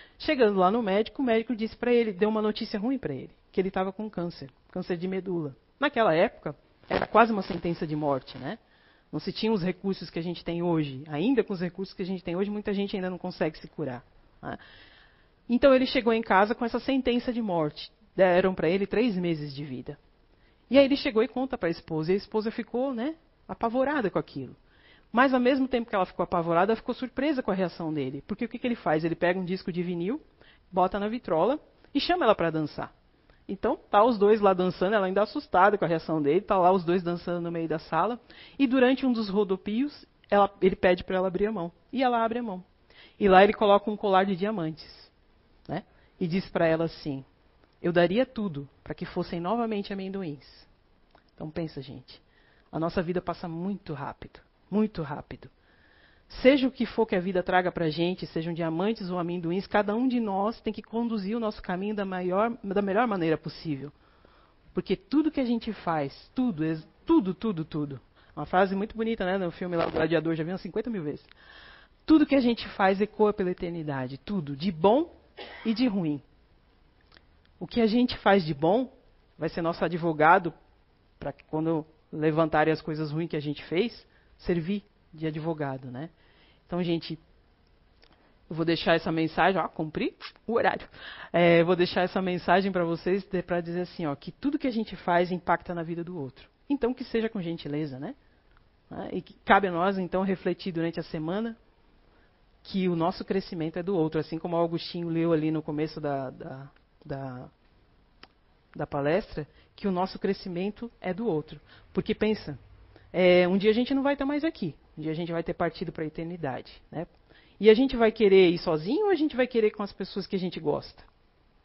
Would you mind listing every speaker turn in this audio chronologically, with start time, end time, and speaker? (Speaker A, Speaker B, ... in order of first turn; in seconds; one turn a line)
Speaker A: 0.2-8.6
Speaker A: 9.1-14.6
Speaker A: 15.5-20.0
Speaker A: 20.7-24.6
Speaker A: 25.1-32.9
Speaker A: 33.5-42.7
Speaker A: 43.2-45.1
Speaker A: 45.7-47.2
Speaker A: 47.8-50.7
Speaker A: 51.4-55.5
Speaker A: 56.3-63.9
Speaker A: 64.8-71.3
Speaker A: 72.1-75.1
Speaker A: 75.6-76.2
Speaker A: 77.6-80.5
Speaker A: 81.2-86.1
Speaker A: 86.7-87.2
Speaker A: 88.5-98.2
Speaker A: 98.9-101.6
Speaker A: 102.6-107.5
Speaker A: 108.7-112.6
Speaker A: 113.1-121.1